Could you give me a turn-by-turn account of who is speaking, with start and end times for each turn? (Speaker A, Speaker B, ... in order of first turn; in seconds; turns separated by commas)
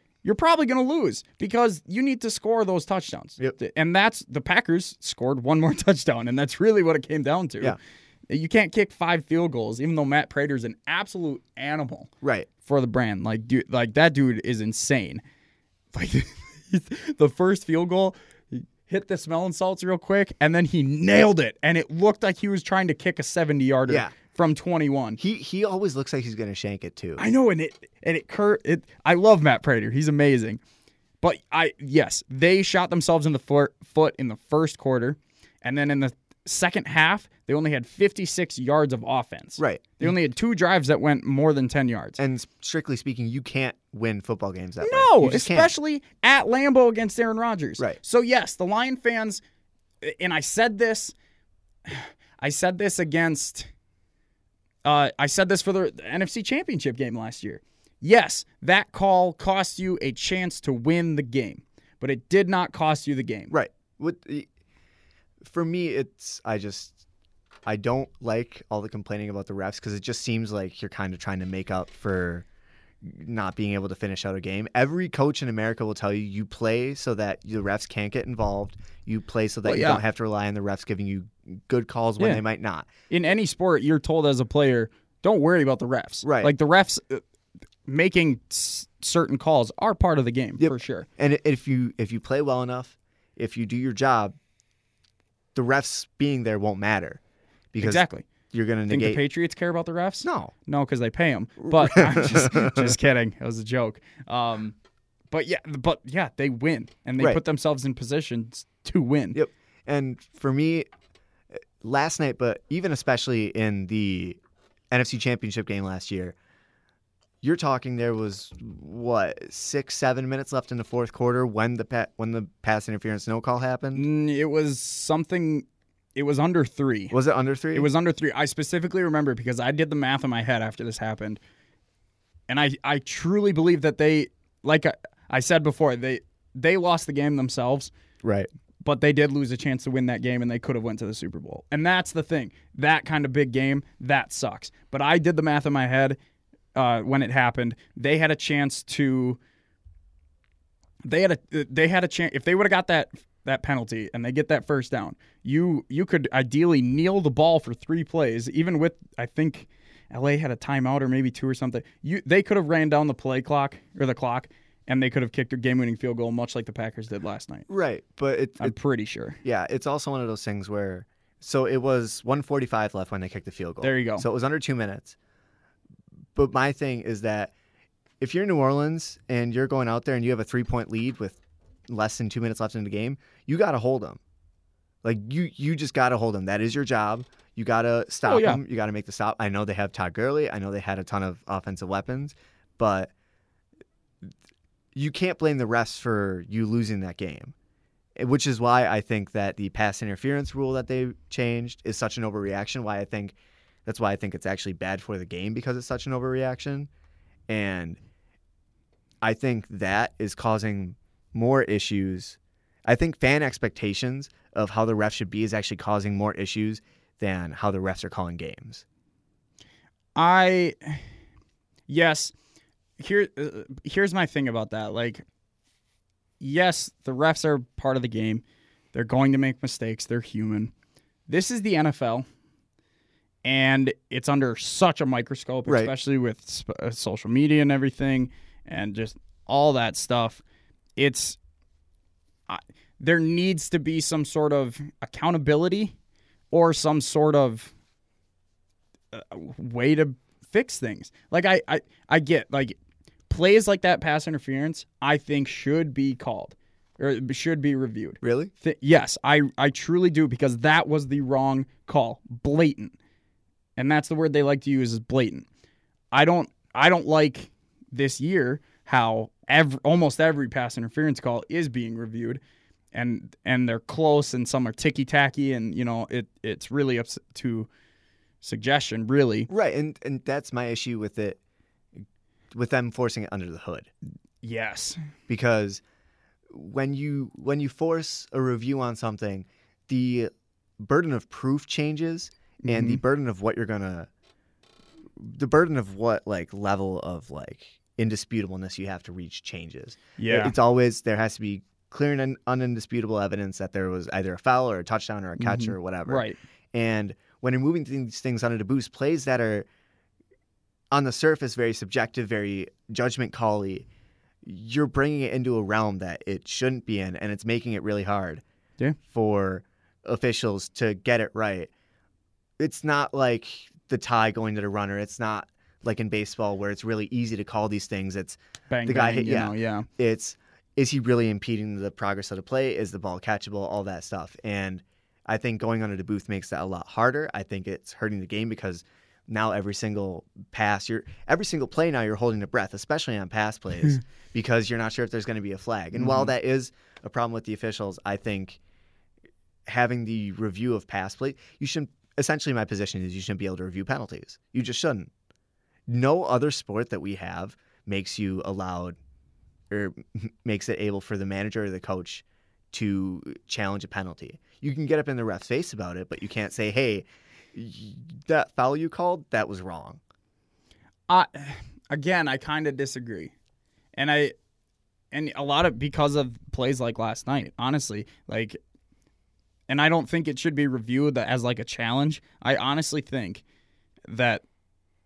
Speaker A: 0.2-7.8, Speaker A: 8.3-12.1, Speaker B: 12.2-12.5, Speaker A: 12.6-15.2, Speaker A: 15.9-25.2, Speaker B: 23.9-24.1, Speaker B: 25.2-27.2, Speaker A: 27.2-30.6, Speaker A: 31.2-42.2, Speaker B: 39.6-39.8, Speaker B: 42.2-45.7, Speaker A: 44.8-49.4, Speaker A: 50.0-51.1, Speaker A: 51.9-53.7, Speaker A: 54.8-63.5, Speaker B: 63.5-64.5, Speaker B: 65.4-67.0, Speaker B: 67.7-72.4, Speaker B: 73.0-82.9, Speaker A: 79.6-80.0, Speaker A: 83.1-87.2, Speaker B: 86.2-86.5, Speaker A: 87.9-91.1, Speaker B: 90.6-94.3, Speaker B: 95.5-97.2, Speaker B: 97.7-99.2, Speaker A: 97.8-98.3, Speaker A: 98.9-104.8, Speaker B: 100.2-100.5, Speaker B: 101.7-102.9, Speaker A: 105.3-109.4, Speaker B: 109.3-110.9, Speaker B: 111.8-114.4, Speaker B: 114.9-116.3, Speaker B: 117.4-124.0, Speaker A: 123.9-127.2, Speaker B: 127.1-127.9, Speaker A: 127.7-131.4, Speaker A: 132.5-137.9, Speaker B: 138.2-138.5, Speaker A: 138.8-146.2, Speaker A: 146.7-149.4, Speaker A: 151.0-167.7, Speaker B: 167.7-168.7, Speaker A: 168.6-169.4, Speaker B: 169.4-175.2, Speaker A: 173.8-174.2, Speaker B: 176.3-177.5, Speaker B: 178.2-184.2, Speaker B: 185.0-193.1, Speaker A: 188.2-188.6, Speaker B: 194.9-197.5, Speaker B: 198.2-206.9, Speaker B: 207.5-208.0, Speaker B: 209.2-218.8, Speaker A: 220.2-221.0, Speaker A: 221.9-222.3, Speaker A: 223.0-225.2, Speaker A: 226.4-230.7, Speaker A: 231.3-232.2, Speaker A: 233.4-240.4, Speaker B: 235.7-235.9, Speaker A: 241.0-241.4, Speaker A: 242.5-245.9, Speaker A: 246.5-247.7, Speaker A: 249.1-262.9, Speaker B: 258.2-258.5, Speaker A: 263.8-265.4, Speaker A: 266.1-272.4, Speaker A: 272.9-277.7, Speaker A: 278.4-279.5, Speaker B: 279.5-281.4, Speaker B: 282.5-283.9, Speaker A: 284.4-285.0, Speaker B: 285.3-285.8, Speaker B: 286.5-294.1, Speaker A: 292.6-293.0, Speaker B: 295.2-309.6, Speaker A: 300.2-300.5, Speaker A: 305.4-306.4, Speaker B: 310.9-313.9, Speaker B: 314.4-318.4, Speaker B: 319.1-321.7, Speaker B: 322.6-348.6, Speaker A: 328.7-329.9, Speaker A: 346.0-346.3, Speaker B: 349.6-355.1, Speaker B: 355.9-359.0, Speaker B: 359.7-370.0, Speaker A: 371.1-373.3, Speaker A: 373.9-374.3, Speaker A: 375.1-378.6, Speaker A: 379.7-383.4, Speaker A: 384.1-384.4